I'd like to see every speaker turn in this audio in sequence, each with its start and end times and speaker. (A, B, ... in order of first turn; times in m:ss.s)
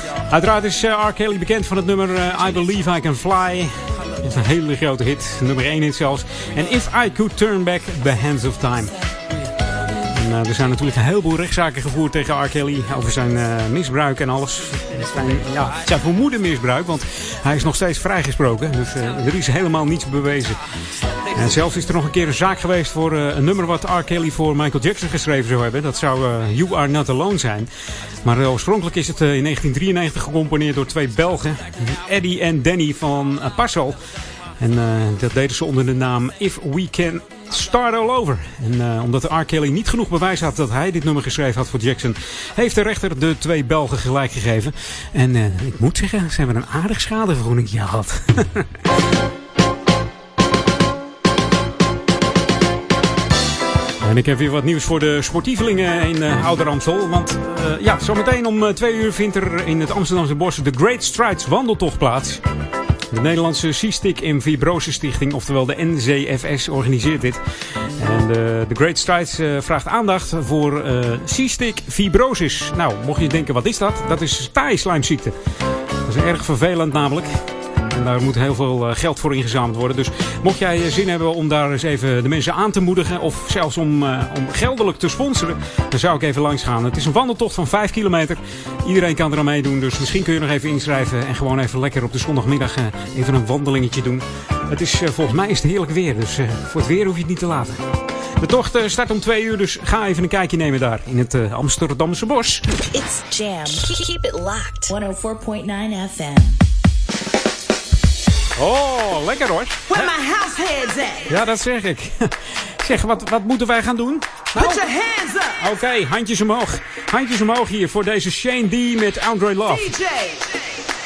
0:00.3-0:09.0 A
0:10.1-0:20.6 A
0:21.3-0:27.7 A
0:28.2-0:34.0 A
0:34.6-0:48.6 A
0:54.0-1:02.4 A
1:03.1-1:07.4 A
1:08.0-1:15.4 A
1:16.1-1:17.3 A
1:17.9-1:37.8 A
1:38.4-1:42.6 A
1:42.9-1:46.6 B
1:48.6-1:50.1 A
1:49.9-1:51.3 C
1:51.3-1:54.8 A
1:54.6-1:55.6 C
1:55.6-1:59.9 A
1:59.7-2:00.6 C